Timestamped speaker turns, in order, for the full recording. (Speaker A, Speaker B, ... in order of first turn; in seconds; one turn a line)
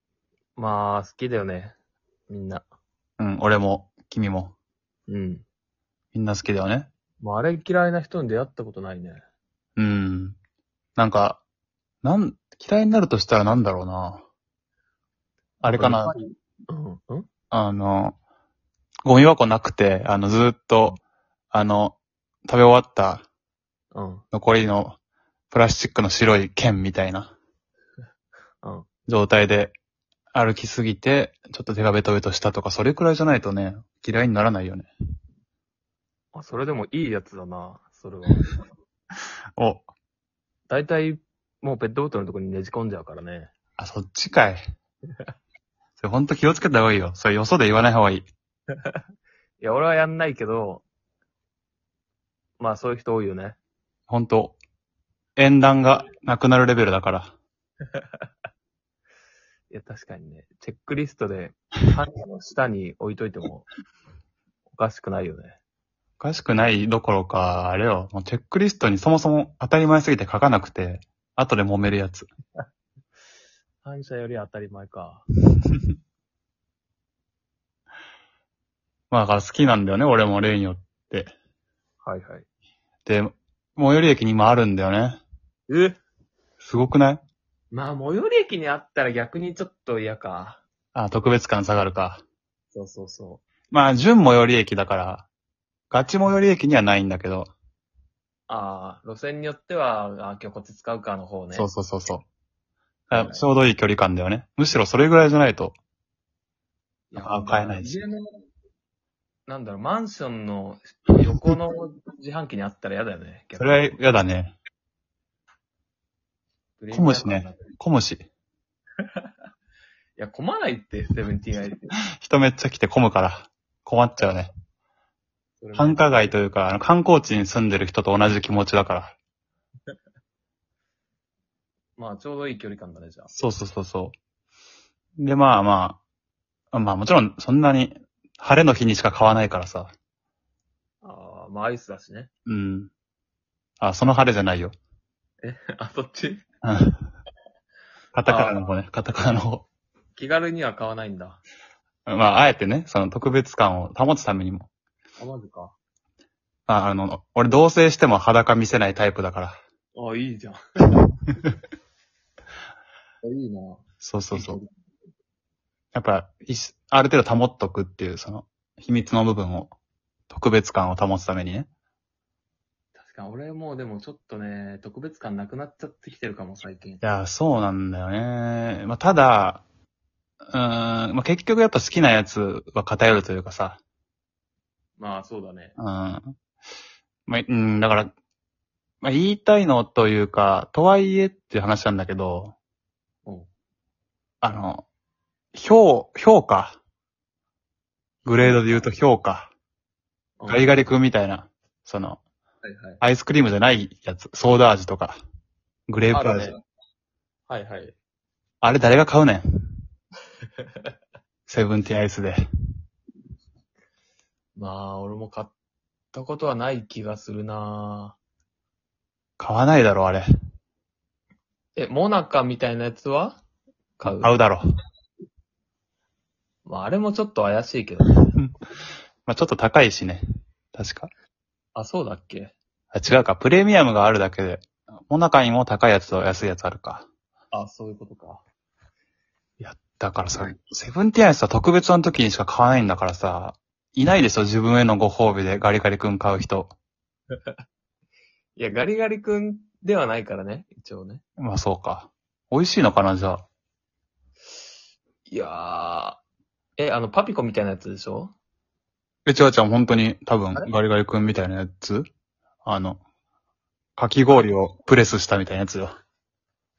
Speaker A: 0.6-1.8
Speaker A: 2.3-2.6
Speaker B: 3.2-4.5
Speaker A: 5.1-5.4
Speaker B: 6.1-6.9
Speaker A: 7.2-9.2
Speaker B: 9.8-10.4
Speaker B: 11.0-11.4
Speaker B: 12.0-14.2
Speaker B: 15.6-16.1
Speaker A: 15.6-17.3
Speaker B: 17.5-18.2
Speaker B: 19.1-21.0
Speaker B: 21.5-21.9
Speaker B: 22.5-23.2
Speaker A: 23.9-24.2
Speaker B: 24.3-25.0
Speaker B: 25.5-27.3
Speaker B: 29.1-29.7
Speaker B: 30.3-34.9
Speaker A: 36.3-38.5
Speaker B: 39.6-39.9
Speaker A: 40.7-43.5
Speaker B: 43.8-44.6
Speaker B: 46.0-48.3
Speaker A: 48.7-49.0
Speaker A: 49.6-50.8
Speaker A: 52.6-53.6
Speaker B: 54.1-54.6
Speaker B: 55.4-57.3
Speaker A: 57.9-58.2
Speaker A: 59.7-63.7
Speaker A: 64.7-65.6
Speaker B: 66.2-72.3
Speaker A: 73.8-75.2
Speaker B: 79.1-81.3
Speaker A: 82.0-82.5
Speaker B: 83.0-85.2
Speaker A: 85.7-86.0
Speaker B: 86.6-87.2
Speaker A: 87.7-90.6
Speaker B: 90.9-92.2
Speaker A: 92.7-93.4
Speaker B: 93.7-95.3
Speaker B: 95.9-97.5
Speaker A: 98.5-101.7
Speaker B: 101.5-102.2
Speaker B: 103.1-105.7
Speaker A: 103.1-103.5
Speaker A: 107.1-108.4
Speaker B: 107.2-108.0
Speaker A: 109.5-113.9
Speaker B: 113.6-114.5
Speaker A: 116.8-117.6
Speaker B: 116.9-118.3
Speaker A: 120.2-122.0
Speaker B: 122.2-124.5
Speaker A: 125.6-126.2
Speaker B: 125.7-129.2
Speaker A: 132.0-133.3
Speaker B: 133.3-134.1
Speaker B: 135.2-136.0
Speaker B: 136.7-139.9
Speaker A: 141.0-142.3
Speaker B: 142.4-142.9
Speaker B: 143.8-144.7
Speaker A: 145.4-146.4
Speaker B: 146.6-147.0
Speaker B: 148.1-149.7
Speaker A: 148.2-148.6
Speaker A: 150.2-151.4
Speaker B: 152.1-154.7
Speaker A: 155.2-155.7
Speaker B: 156.7-159.6
Speaker A: 159.9-160.6
Speaker A: 163.2-164.7
Speaker B: 164.0-164.6
Speaker B: 165.9-169.7
Speaker B: 170.3-171.7
Speaker A: 172.9-177.0
Speaker B: 177.0-179.6
Speaker B: 180.5-183.8
Speaker A: 185.0-185.8
Speaker B: 185.8-186.3
Speaker B: 187.3-188.1
Speaker B: 189.0-192.5
Speaker B: 194.4-194.8
Speaker B: 195.5-196.8
Speaker B: 198.2-199.5
Speaker A: 198.3-198.9
Speaker A: 200.4-200.8
Speaker B: 200.5-202.2
Speaker A: 202.6-203.0
Speaker B: 203.0-205.2
Speaker B: 205.9-206.5
Speaker A: 206.1-206.6
Speaker A: 207.5-207.9
Speaker B: 208.6-209.4
Speaker B: 211.5-212.4
Speaker A: 214.6-215.5
Speaker A: 216.1-218.2
Speaker B: 219.4-220.2
Speaker A: 221.8-223.4
Speaker A: 224.0-224.4
Speaker B: 224.1-224.6
Speaker A: 226.6-228.3
Speaker B: 229.2-230.2
Speaker B: 230.7-231.1
Speaker A: 231.7-232.5
Speaker B: 232.9-237.1
Speaker A: 237.5-238.4
Speaker B: 239.6-246.7
Speaker A: 248.6-251.2
Speaker B: 251.4-253.4
Speaker A: 255.3-256.2
Speaker A: 256.8-258.3
Speaker B: 259.2-262.1
Speaker B: 262.6-263.0
Speaker B: 264.0-265.9